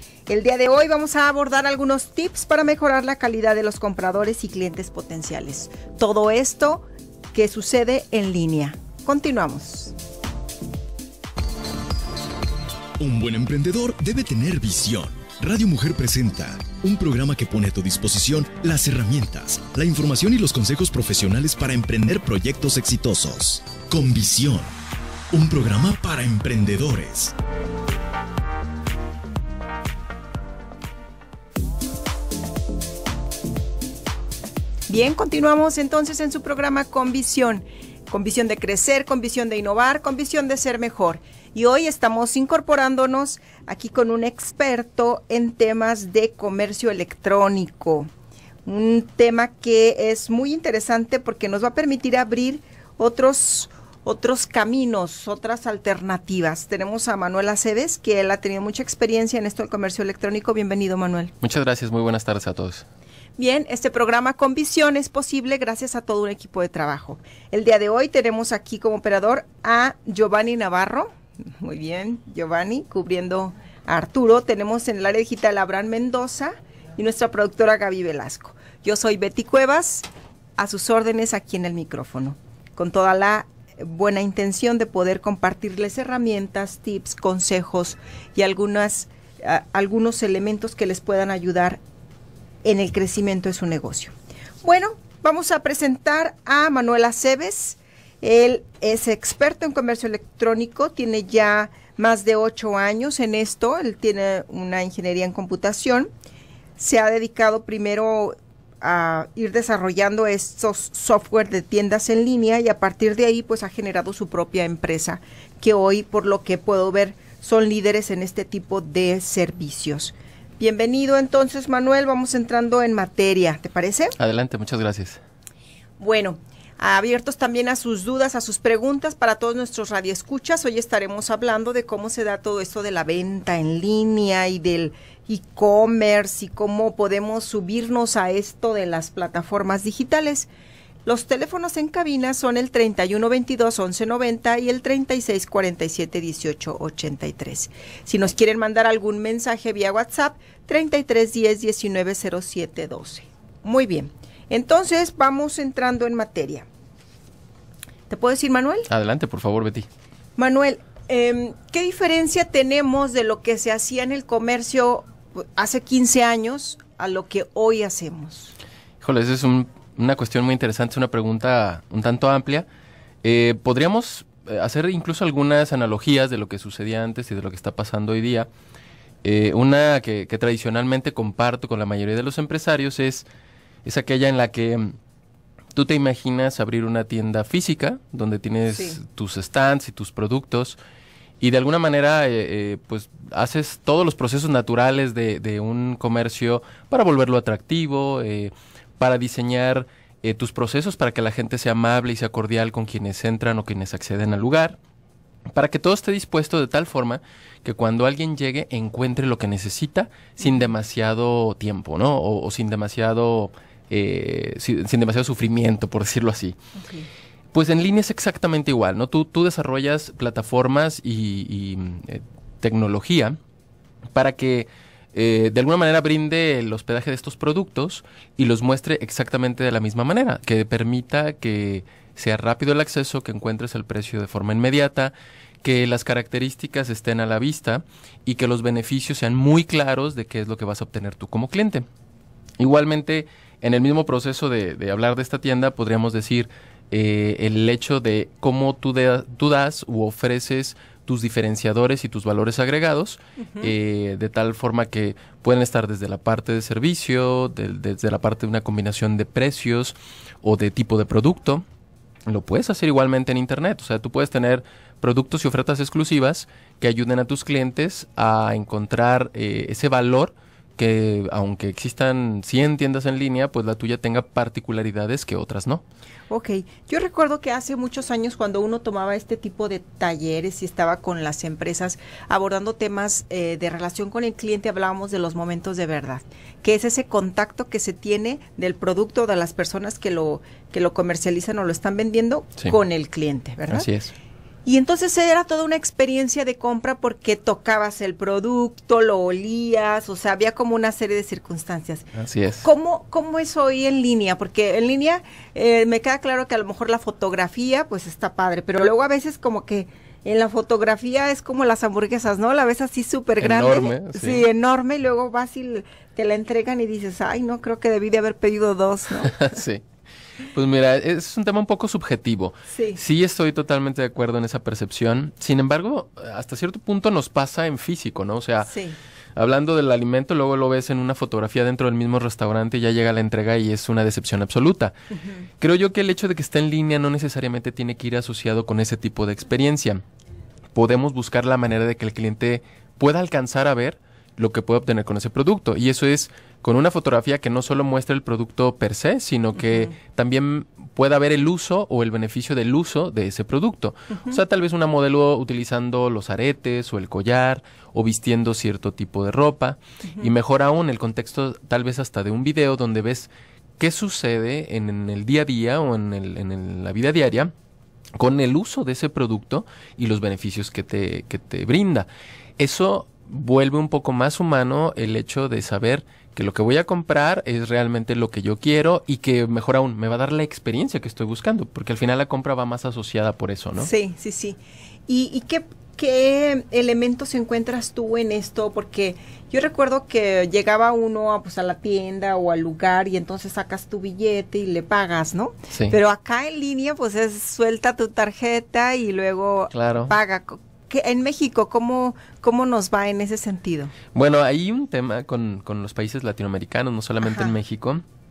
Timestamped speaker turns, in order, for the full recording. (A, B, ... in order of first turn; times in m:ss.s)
0:00.3-0:10.0 A
0:13.0-0:24.7 B
0:25.3-0:27.3 B
0:34.9-0:48.1 A
0:48.7-1:01.3 A
1:01.4-1:02.8 C
1:03.4-1:31.8 A
1:32.6-1:46.1 A
1:46.8-2:04.2 A
2:04.2-2:05.2 C
2:06.0-2:20.5 A
2:21.1-2:36.7 A
2:38.1-2:38.9 A
2:38.9-2:39.9 C
2:40.4-2:48.6 A
2:49.0-2:52.7 C
2:53.2-2:58.5 C
2:59.2-3:03.2 C
3:03.8-3:05.0 C
3:05.8-3:10.8 C
3:08.7-3:09.0 A
3:11.4-3:24.8 C
3:25.5-3:36.6 C
3:30.4-3:30.7 A
3:36.8-3:37.1 A
3:37.5-3:43.4 C
3:44.2-4:01.9 C
4:02.6-4:21.6 C
4:13.4-4:13.7 A
4:22.3-4:35.8 C
4:36.3-4:53.9 A
4:53.7-4:54.1 C
4:54.7-5:02.1 A
5:02.2-5:02.6 C
5:02.6-5:19.6 A
5:13.4-5:14.4 C
5:19.2-5:19.8 C
5:20.5-5:28.7 C
5:22.7-5:23.0 A
5:28.7-5:29.0 A
5:29.4-5:34.9 C
5:35.1-5:35.4 A
5:35.6-5:40.0 C
5:40.8-6:07.5 C
5:54.1-5:54.4 A
6:08.2-6:12.1 C
6:12.6-6:23.9 C
6:23.8-6:43.9 A
6:39.7-6:40.1 C
6:44.1-6:48.0 C
6:47.2-6:47.5 A